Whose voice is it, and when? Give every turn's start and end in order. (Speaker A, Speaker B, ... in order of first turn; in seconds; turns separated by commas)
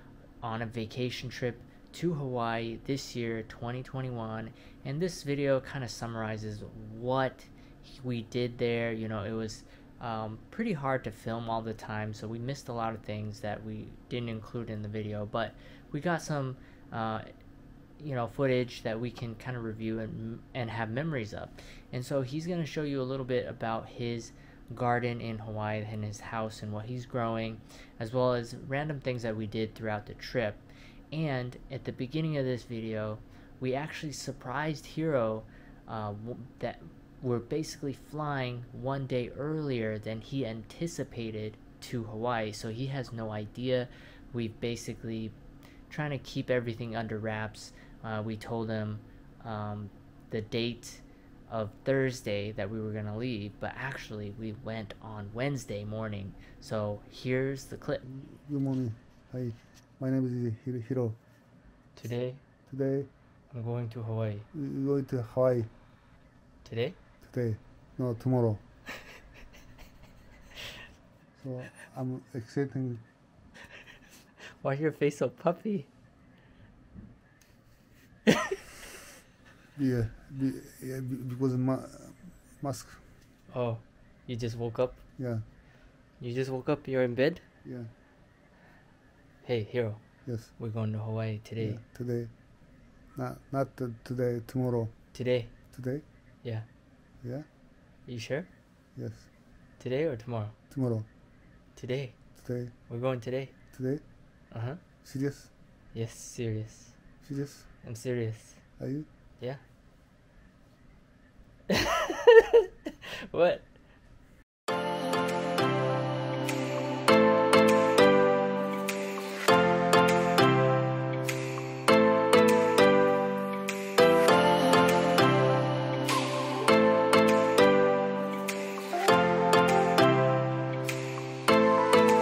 Speaker A: 0.4-17.3, Speaker A: 18.0-45.4, Speaker A: 45.9-58.0, Speaker B: 58.0-61.2, Speaker A: 62.0-62.4, Speaker B: 62.7-63.1, Speaker A: 63.5-64.5, Speaker B: 64.5-65.7, Speaker A: 66.6-67.0, Speaker B: 67.2-68.6, Speaker B: 71.4-73.0, Speaker A: 74.6-75.9, Speaker B: 79.8-83.0, Speaker A: 83.5-85.0, Speaker B: 85.2-85.4, Speaker A: 86.2-87.4, Speaker B: 87.6-87.9, Speaker A: 89.4-91.8, Speaker B: 90.2-90.5, Speaker B: 91.6-92.5, Speaker B: 93.2-96.0, Speaker A: 95.1-95.7, Speaker A: 98.1-98.5, Speaker B: 99.0-99.3, Speaker A: 99.8-100.5, Speaker B: 100.7-101.1, Speaker A: 101.8-103.5, Speaker B: 102.4-102.7, Speaker B: 103.7-104.0, Speaker A: 104.5-104.8, Speaker B: 105.0-105.5, Speaker A: 105.9-107.0, Speaker B: 107.2-107.7, Speaker A: 107.8-108.8, Speaker B: 108.8-109.1, Speaker A: 111.7-112.3, Speaker A: 113.3-113.7